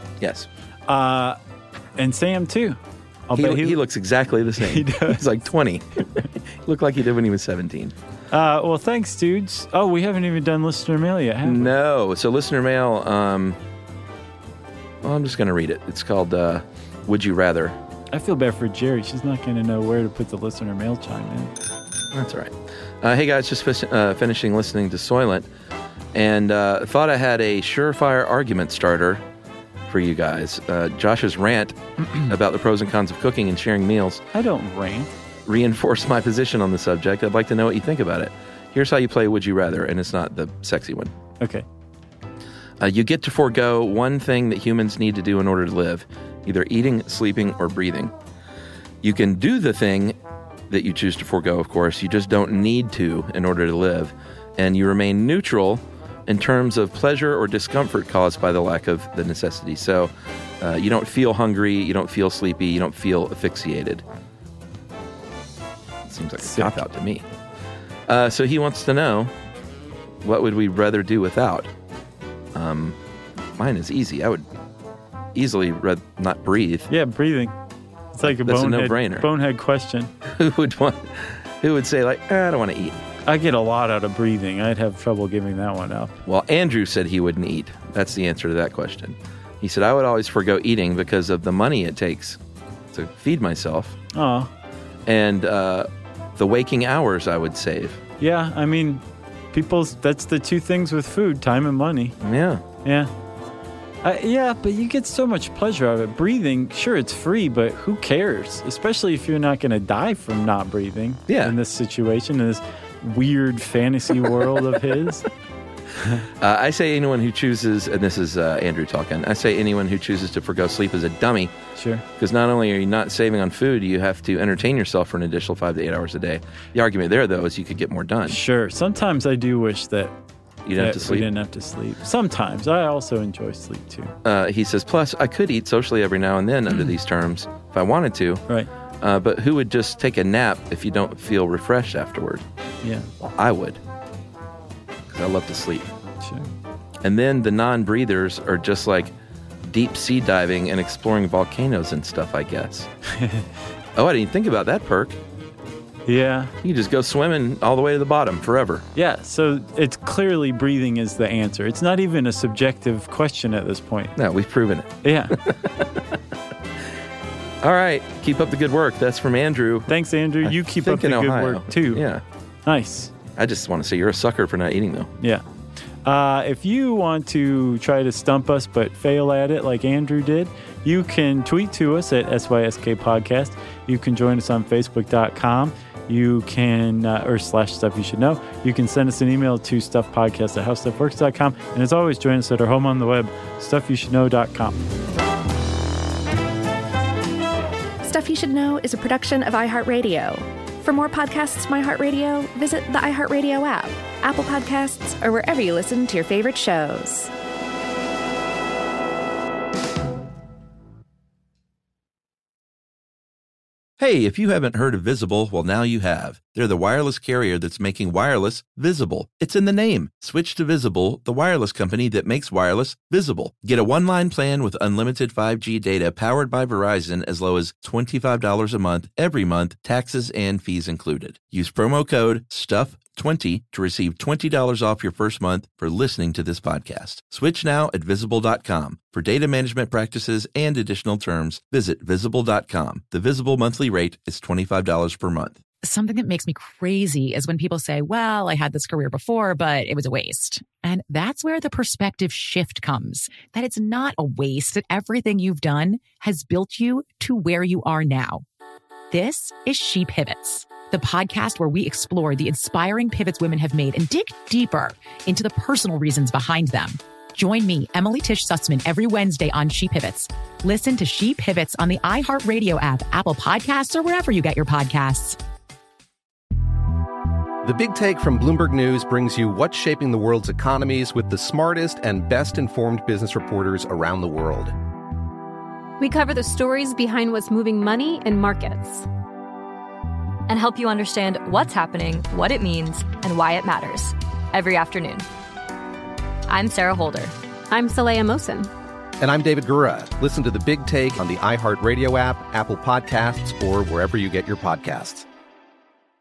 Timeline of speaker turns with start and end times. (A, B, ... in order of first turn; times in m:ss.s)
0:00.2-0:00.5 A
0:00.9-0:01.4 B
0:02.0-0:03.8 B
0:03.3-0:07.9 A
0:04.6-0:05.2 B
0:08.3-0:11.7 B
0:11.4-0:13.6 A
0:15.0-0:17.8 A
0:18.1-0:21.5 B
0:22.1-0:25.5 A
0:26.1-0:29.2 A
0:29.9-0:34.2 A
0:34.3-0:35.1 B
0:35.5-0:41.1 A
0:41.4-0:41.6 B
0:42.8-0:48.1 A
0:49.0-0:50.1 A
0:50.7-1:04.0 A
1:06.0-1:07.2 A
1:06.4-1:06.8 B
1:08.1-1:09.3 A
1:10.2-1:11.7 A
1:12.5-1:13.0 A
1:13.6-1:14.4 A
1:15.3-1:16.9 A
1:16.9-1:17.5 B
1:18.1-1:20.1 B
1:18.2-1:19.3 A
1:20.3-1:23.0 A
1:23.2-1:26.1 B
1:26.2-1:32.4 A
1:32.9-1:34.0 A
1:34.1-1:34.5 B
1:35.0-1:38.0 A
1:38.2-1:42.2 B
1:42.2-1:42.6 A
1:42.8-1:43.1 B
1:44.0-1:55.3 B
1:51.3-1:51.5 A
1:56.4-2:01.5 A
2:01.8-2:02.0 B
2:02.2-2:08.4 A
2:08.2-2:10.1 B
2:10.6-2:11.3 A
2:10.8-2:14.1 B
2:14.2-2:18.4 A
2:19.0-2:22.4 A
2:23.2-2:23.8 A
2:25.1-2:25.9 A
2:26.2-2:26.5 B
2:27.0-2:29.1 A
2:29.6-2:32.9 A
2:33.1-2:33.5 B
2:34.0-2:35.2 A
2:36.1-2:36.5 B
2:36.6-2:38.8 A
2:38.9-2:44.1 B
2:44.2-2:45.7 A
2:45.0-2:45.3 B
2:47.6-2:49.9 A
2:49.9-2:52.0 B
2:50.4-2:52.2 A
2:52.6-2:53.1 B
2:53.4-2:55.1 A
2:56.0-3:14.8 B
3:18.0-3:27.3 C
3:34.0-4:05.6 A
4:05.8-4:18.4 D
4:19.1-4:35.4 D
4:37.6-4:44.7 E
4:46.0-4:49.0 F
4:50.5-4:55.2 G
4:56.5-4:57.3 G
4:57.7-4:58.7 F
4:59.2-5:05.2 E